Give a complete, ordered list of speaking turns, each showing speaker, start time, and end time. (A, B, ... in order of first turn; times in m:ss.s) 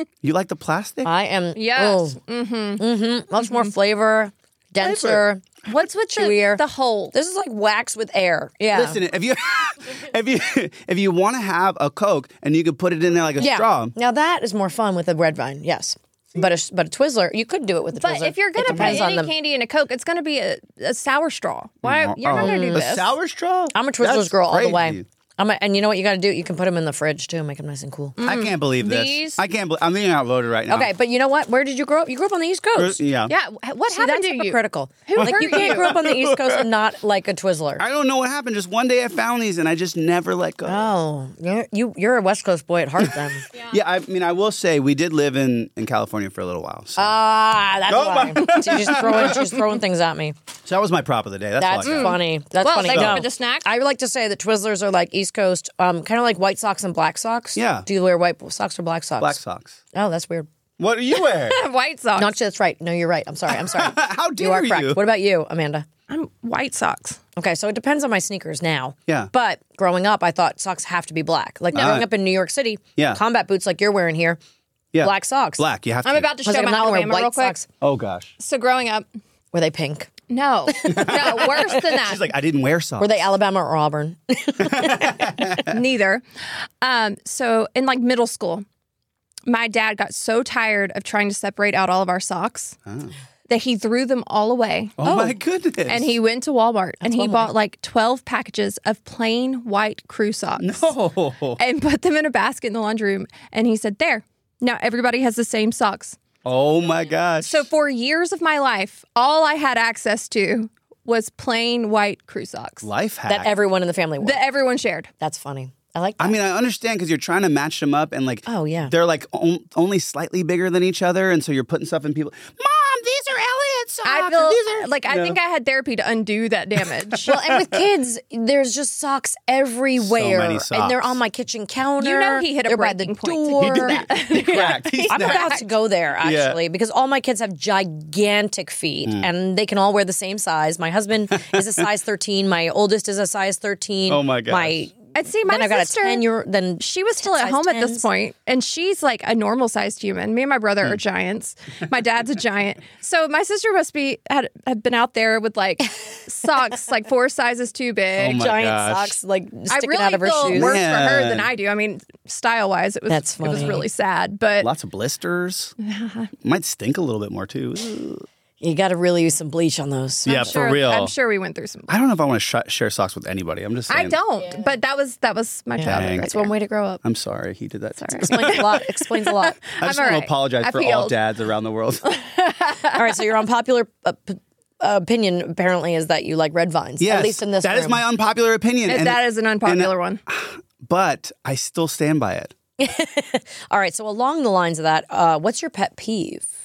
0:00.2-0:01.1 A
0:01.0-0:02.2 B
0:01.5-0:02.8 C
0:02.8-0:05.4 B
0:04.8-0:05.2 A
0:05.7-0:07.1 C
0:06.1-0:09.0 B
0:08.7-0:13.9 A
0:13.4-0:19.3 B
0:17.9-0:23.1 C
0:18.6-0:19.1 A
0:21.8-0:25.0 A
0:22.3-0:22.9 B
0:23.7-0:28.2 B
0:28.2-0:29.4 C
0:28.2-0:30.9 A
0:30.7-0:33.0 B
0:32.7-0:33.3 A
0:33.3-0:36.0 C
0:33.9-0:37.8 B
0:35.2-0:36.7 A
0:37.8-0:40.9 A
0:40.6-0:43.5 B
0:43.5-0:47.2 A
0:47.0-0:50.3 B
0:47.9-0:49.6 A
0:50.6-0:52.2 A
0:51.6-0:59.4 B
0:51.8-0:53.7 C
0:52.9-0:53.2 A
0:57.6-0:57.9 A
0:59.2-0:59.8 A
0:59.9-1:00.5 B
1:00.8-1:01.6 A
1:01.1-1:02.3 C
1:02.2-1:05.9 B
1:03.5-1:05.0 A
1:06.1-1:07.2 C
1:07.4-1:14.4 B
1:11.7-1:12.1 A
1:14.9-1:16.3 A
1:15.0-1:15.6 B
1:16.0-1:17.6 C
1:16.4-1:17.6 B
1:17.8-1:18.3 A
1:18.4-1:19.0 C
1:19.5-1:20.1 B
1:20.3-1:22.3 C
1:20.7-1:21.6 B
1:20.8-1:23.2 A
1:23.0-1:25.5 B
1:24.6-1:25.8 A
1:25.6-1:26.2 C
1:26.8-1:28.6 C
1:29.5-1:32.8 C
1:32.8-1:33.1 A
1:33.5-1:35.3 C
1:35.0-1:36.2 A
1:35.9-1:40.9 C
1:37.0-1:37.5 B
1:40.6-1:41.6 A
1:41.6-1:46.2 C
1:46.4-1:47.6 A
1:47.4-1:52.9 C
1:52.8-1:53.5 A
1:53.3-1:54.4 B
1:54.2-1:55.1 C
1:55.2-1:56.4 B
1:56.2-2:05.4 A
1:58.4-1:58.9 B
2:04.0-2:07.3 C
2:06.8-2:07.8 A
2:07.2-2:28.0 B
2:10.0-2:11.2 A
2:12.0-2:15.7 C
2:13.6-2:15.6 A
2:16.2-2:16.6 A
2:21.5-2:21.8 A
2:24.1-2:24.9 A
2:25.1-2:26.2 C
2:26.8-2:38.4 C
2:38.2-2:39.2 A
2:38.2-2:40.8 B
2:39.7-2:44.7 C
2:40.5-2:41.5 A
2:43.1-2:43.9 B
2:44.6-2:45.7 A
2:45.8-2:46.3 C
2:46.4-2:48.2 A
2:48.6-2:50.6 B
2:50.2-2:51.1 A
2:50.3-2:51.9 C
2:51.9-2:54.2 A
2:53.9-2:56.5 C
2:55.8-2:57.0 B
2:55.8-2:56.3 A
2:57.0-2:58.7 A
2:58.0-3:01.1 C
2:58.2-2:59.6 B
2:59.8-3:02.1 A
3:02.1-3:03.2 C
3:02.9-3:08.0 B
3:07.0-3:12.5 A
3:08.9-3:10.2 C
3:12.8-3:16.5 B